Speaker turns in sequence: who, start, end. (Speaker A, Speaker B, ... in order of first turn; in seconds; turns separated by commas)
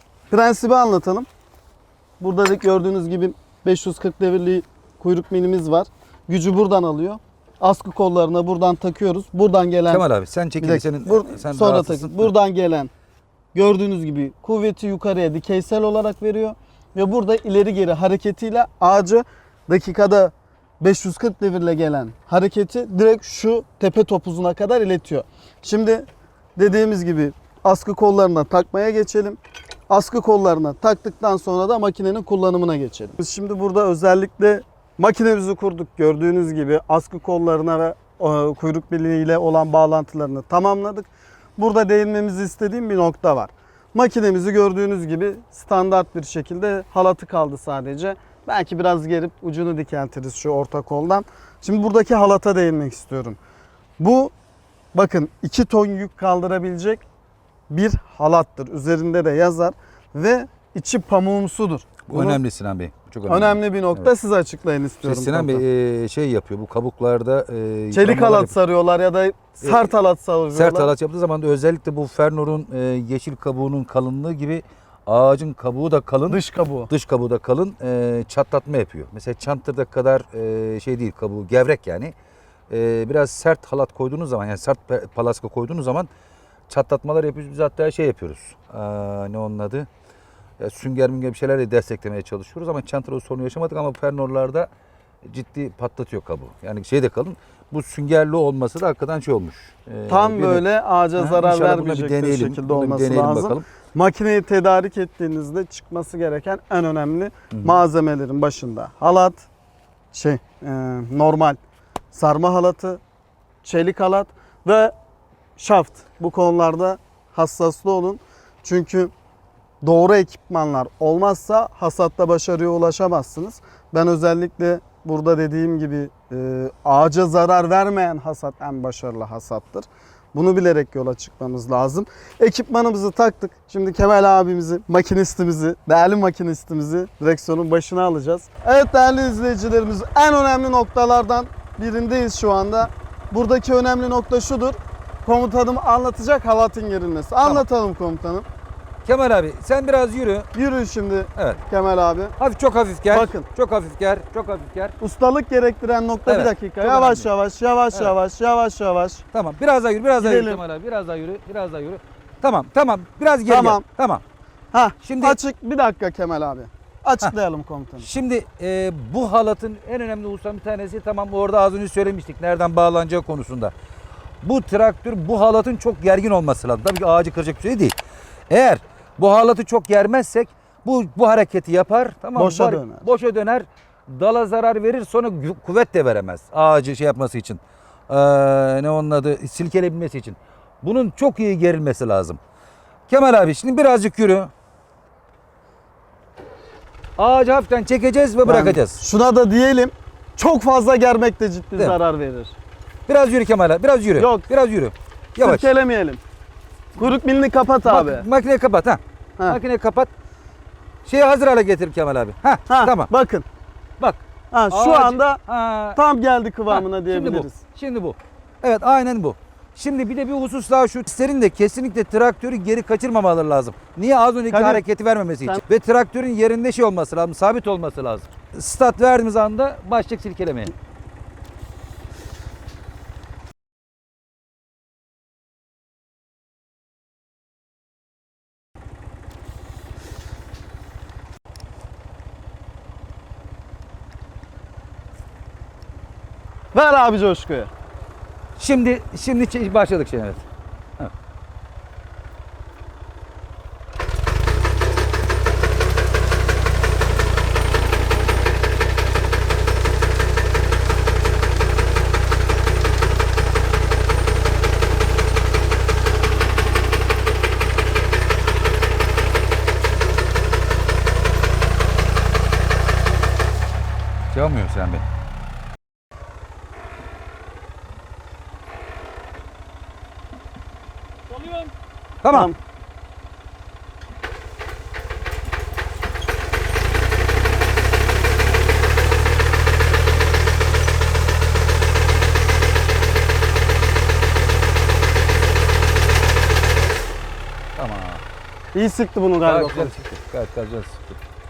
Speaker A: 0.3-1.3, Speaker A: 2.2-10.1, Speaker B: 9.9-12.3, Speaker A: 10.6-12.9, Speaker A: 13.5-29.4, Speaker A: 29.9-53.4, Speaker A: 54.0-54.3, Speaker A: 54.9-57.0, Speaker A: 57.7-62.4, Speaker B: 62.1-64.1, Speaker A: 63.3-65.7, Speaker B: 65.0-68.5, Speaker A: 67.9-70.9, Speaker B: 69.6-69.9, Speaker B: 70.5-82.1, Speaker A: 76.3-76.9, Speaker B: 82.7-86.1, Speaker B: 86.7-89.9, Speaker B: 90.6-94.7, Speaker B: 95.2-100.7, Speaker A: 100.1-109.5, Speaker B: 101.2-103.6, Speaker A: 110.1-111.6, Speaker A: 112.1-113.0, Speaker A: 113.6-114.9, Speaker A: 115.6-119.1, Speaker A: 119.8-148.5, Speaker B: 149.1-150.5, Speaker A: 150.5-152.3, Speaker B: 151.4-151.6, Speaker B: 152.4-154.9, Speaker A: 153.1-153.5, Speaker A: 155.0-159.2, Speaker B: 156.3-157.3, Speaker B: 159.3-164.2, Speaker A: 160.2-160.6, Speaker A: 163.5-163.8, Speaker A: 164.7-168.1, Speaker B: 165.0-165.4, Speaker B: 168.0-173.7, Speaker B: 174.4-178.0, Speaker B: 178.5-192.4, Speaker A: 182.3-183.1, Speaker B: 193.1-194.5, Speaker B: 197.2-199.0, Speaker A: 198.4-202.6, Speaker B: 203.1-205.7, Speaker A: 204.2-204.5, Speaker A: 205.4-206.2, Speaker A: 206.9-208.3, Speaker B: 207.9-210.1, Speaker B: 211.0-213.1, Speaker A: 212.7-213.4, Speaker B: 214.0-216.0, Speaker A: 214.5-215.4, Speaker A: 215.9-217.6, Speaker B: 216.7-230.7, Speaker A: 224.5-224.8, Speaker A: 246.7-247.7, Speaker B: 248.6-250.4, Speaker B: 274.3-275.0, Speaker B: 282.2-282.5, Speaker A: 282.3-282.6, Speaker B: 297.8-298.2, Speaker A: 298.7-299.9, Speaker B: 299.4-301.2